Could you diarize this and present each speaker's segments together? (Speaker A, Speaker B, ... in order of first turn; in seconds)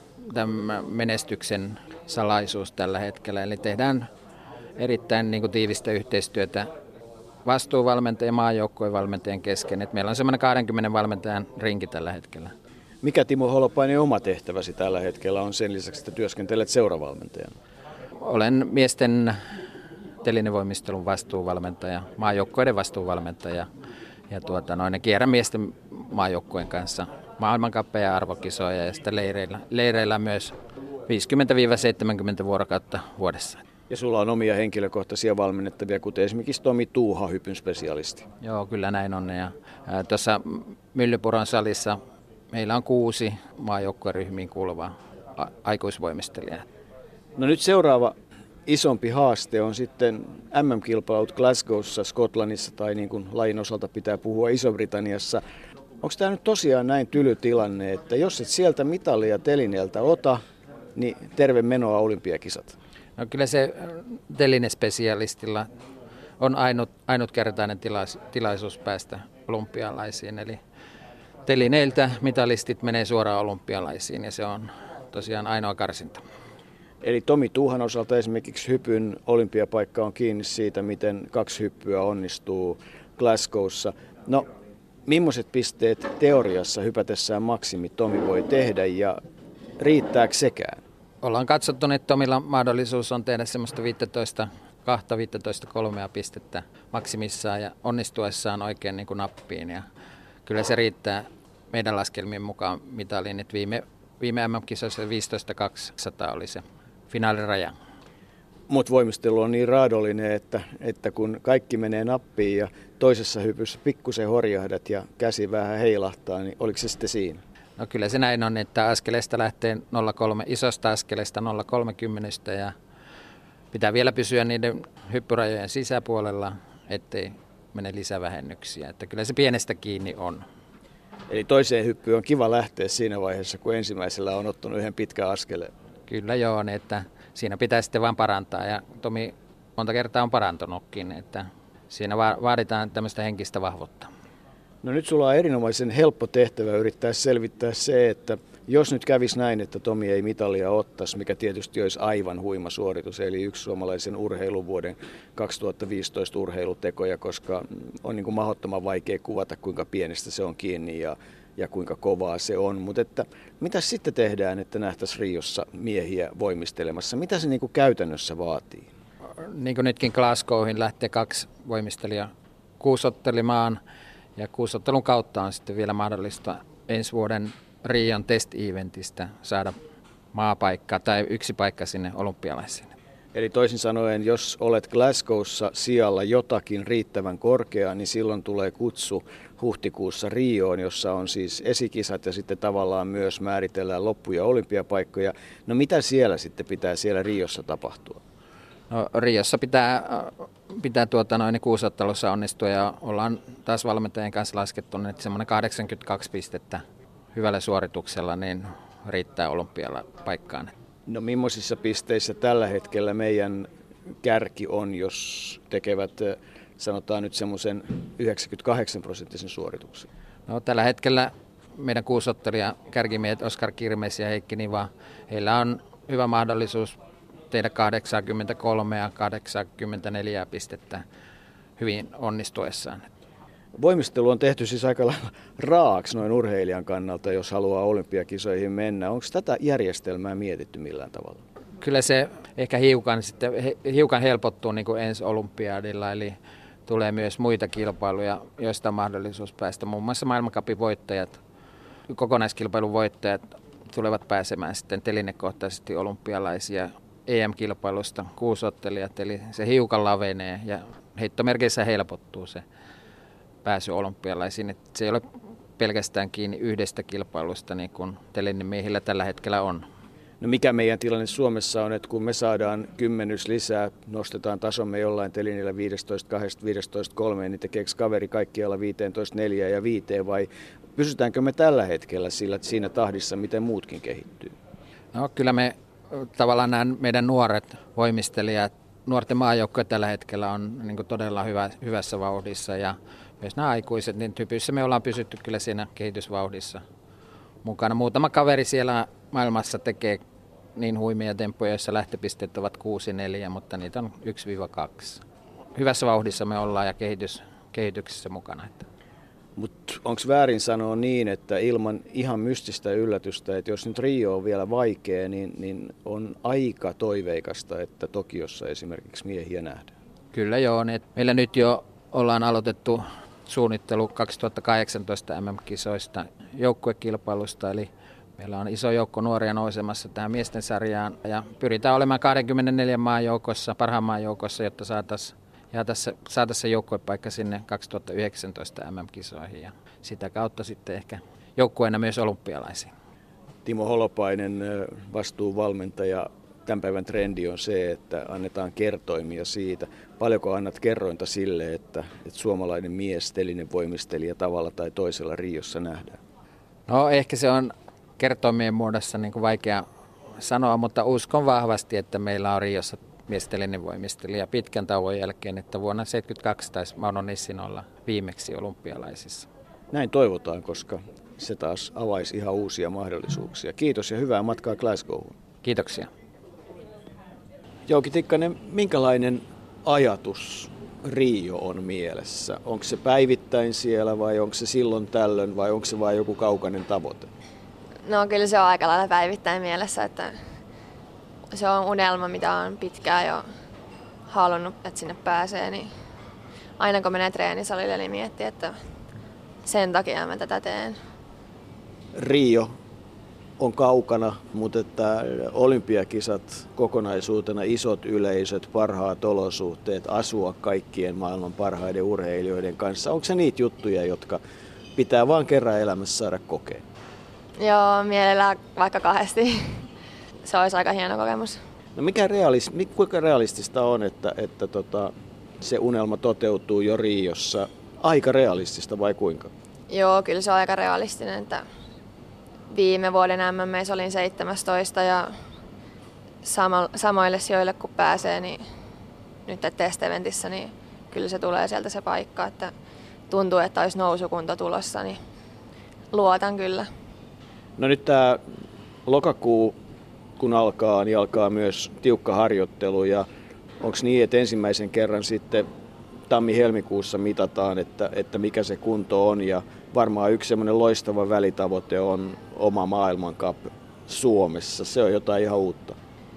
Speaker A: 0.2-4.1, 4.8-6.7, 7.5-12.5, 18.2-19.4, 20.2-23.7, 24.3-30.6, 31.1-33.6, 38.4-42.0, 42.5-46.6, 63.2-65.7, 66.4-70.6, 71.5-76.2, 91.2-99.9, 100.5-107.8, 117.8-122.7, 123.7-130.4, 136.1-144.1, 169.4-173.8, 174.4-179.8, 180.3-182.9, 198.9-206.8, 207.3-210.7, 220.5-226.9, 227.5-231.0, 231.8-233.1, 241.8-251.4, 252.1-262.6, 263.6-265.3, 265.8-269.9, 285.1-296.8, 297.6-300.2, 300.8-305.2, 305.8-308.9, 320.3-342.9, 356.9-359.9, 360.4-369.5, 375.6-376.1
Speaker B: 13.0-17.6, 33.9-38.3, 47.4-48.1, 48.7-55.4, 56.0-60.4, 61.0-62.8, 77.0-84.5, 85.1-89.2, 89.8-90.8, 108.7-117.4, 131.3-135.7, 144.8-168.9, 183.3-198.2, 211.1-213.7, 214.2-220.1, 233.8-241.4, 270.4-284.5, 309.6-319.9, 343.6-356.2, 369.9-375.4, 377.9-387.3, 402.1-402.8, 403.6-414.4, 415.0-416.8, 422.0-429.5, 447.8-448.4, 449.1-449.8, 450.4-453.3, 453.8-455.7, 456.3-466.0
Speaker C: 388.1-390.3, 391.5-393.4, 394.3-395.9, 396.8-398.7, 399.7-401.0, 417.6-419.8, 420.4-421.6, 429.9-431.6, 432.7-435.3, 436.4-438.6, 439.5-442.7, 443.3-445.2, 446.1-446.9